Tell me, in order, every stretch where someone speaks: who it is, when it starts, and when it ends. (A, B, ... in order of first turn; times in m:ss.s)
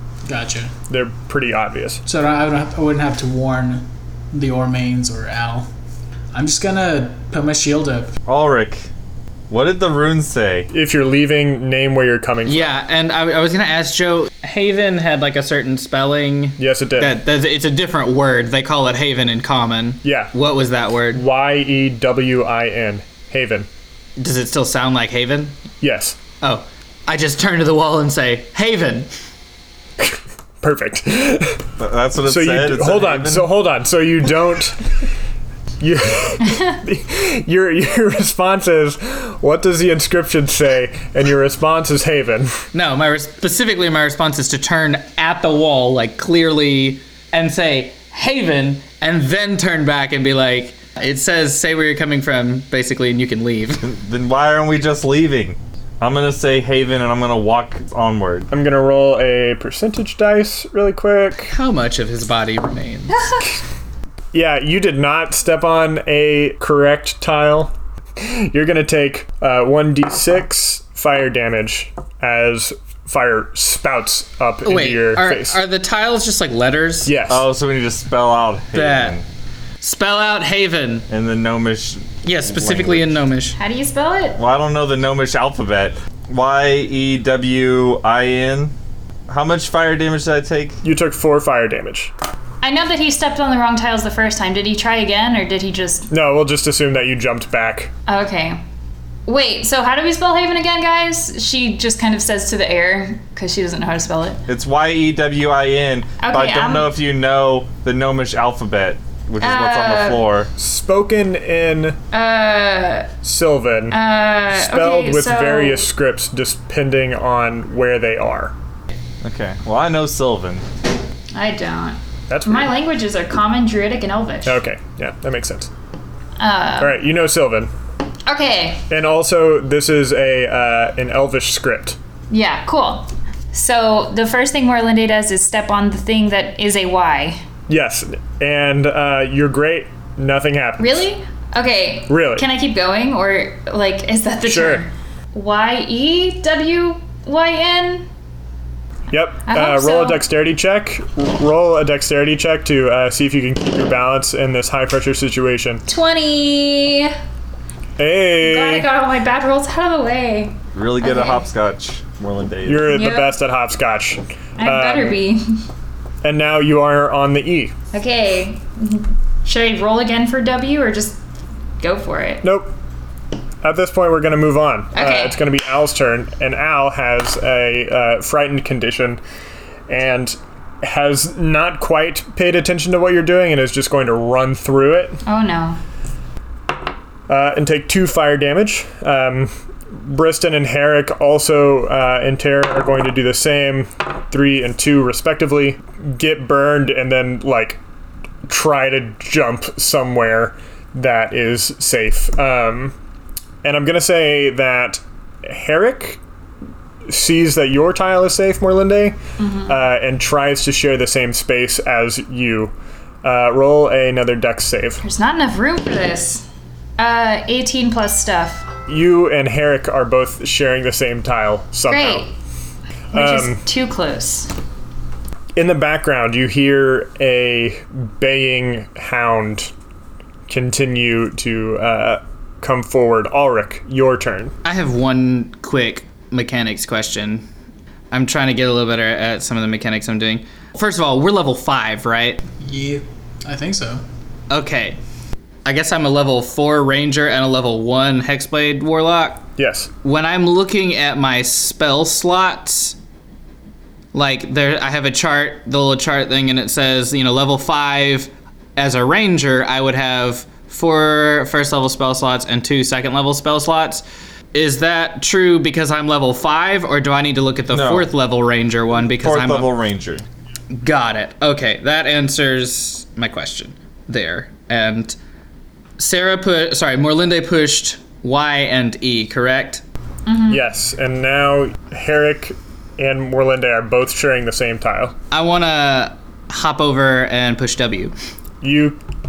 0:00.3-0:00.8 A
0:00.9-0:02.0 B
0:02.1-0:05.7 A
0:06.3-0:08.2 A
0:08.3-0:08.9 C
0:09.5-0:10.7 C
0:10.7-0:12.7 B
0:12.4-0:21.2 D
0:16.6-0:17.2 B
0:20.0-0:20.3 B
0:21.1-0:23.7 B
0:24.2-0:25.6 D
0:25.8-0:26.2 B
0:26.4-0:29.1 D
0:30.0-0:31.6 B
0:31.8-0:33.5 C
0:32.2-0:34.8 B
0:35.8-0:42.6 B
0:42.7-0:53.9 D
0:53.8-0:58.5 C
0:58.5-1:01.5 B
1:01.5-1:03.3 D
1:04.3-1:15.6 B
1:14.6-1:17.1 D
1:17.0-1:17.4 B
1:17.3-1:19.3 C
1:18.7-1:19.2 D
1:19.8-1:21.1 D
1:21.1-1:23.1 C
1:22.2-1:23.6 D
1:23.6-1:24.4 E
1:24.4-1:28.7 C
1:29.3-1:30.8 C
1:30.8-1:32.1 B
1:32.6-1:36.1 E
1:36.1-1:37.9 B
1:38.1-1:38.6 E
1:39.3-1:44.4 E
1:44.5-1:50.5 C
1:46.2-1:46.9 E
1:49.4-1:50.3 E
1:50.6-1:52.0 B
1:52.1-1:53.1 E
1:53.2-1:54.0 B
1:53.9-1:55.9 E
1:54.5-1:58.6 B
1:59.2-2:00.6 C
2:01.3-2:04.6 E
2:02.3-2:02.7 B
2:04.4-2:05.7 B
2:06.4-2:07.0 E
2:06.8-2:07.7 B
2:08.3-2:08.8 E
2:08.9-2:12.0 B
2:12.3-2:17.4 E
2:17.7-2:21.1 B
2:20.8-2:28.1 E
2:22.1-2:22.4 B
2:24.4-2:24.9 B
2:29.1-2:35.8 B
2:29.5-2:30.2 E
2:35.9-2:37.1 E
2:38.0-2:38.9 B
2:38.4-2:41.5 E
2:40.7-2:42.9 C
2:42.7-2:45.2 B
2:42.9-2:43.4 E
2:44.6-2:45.4 E
2:46.2-2:47.7 B
2:47.9-2:51.2 E
2:51.8-2:52.4 E
2:52.4-2:52.7 B
2:53.6-2:59.2 B
2:54.9-2:55.4 E
2:59.9-3:05.2 B
3:05.2-3:05.8 E
3:07.3-3:17.8 B
3:18.4-3:22.9 B
3:23.6-3:26.2 B
3:27.1-3:35.0 B
3:29.4-3:29.8 E
3:35.0-3:36.4 E
3:37.0-3:38.7 E
3:38.9-3:42.3 B
3:41.9-3:42.3 E
3:43.1-3:43.6 B
3:43.1-3:44.5 E
3:45.6-3:49.7 B
3:50.5-3:54.5 B
3:54.6-3:57.4 D
3:58.1-4:02.4 D
4:02.6-4:04.0 A
4:04.5-4:05.0 D
4:05.6-4:09.5 D
4:09.6-4:09.9 B
4:10.0-4:13.0 D
4:14.1-4:24.0 D
4:24.5-4:29.8 D
4:27.7-4:28.1 C
4:29.1-4:30.2 C
4:30.7-4:35.2 D
4:36.0-4:39.8 D
4:40.3-4:40.6 E
4:40.5-4:45.1 B
4:45.3-4:48.1 D
4:48.6-4:49.0 B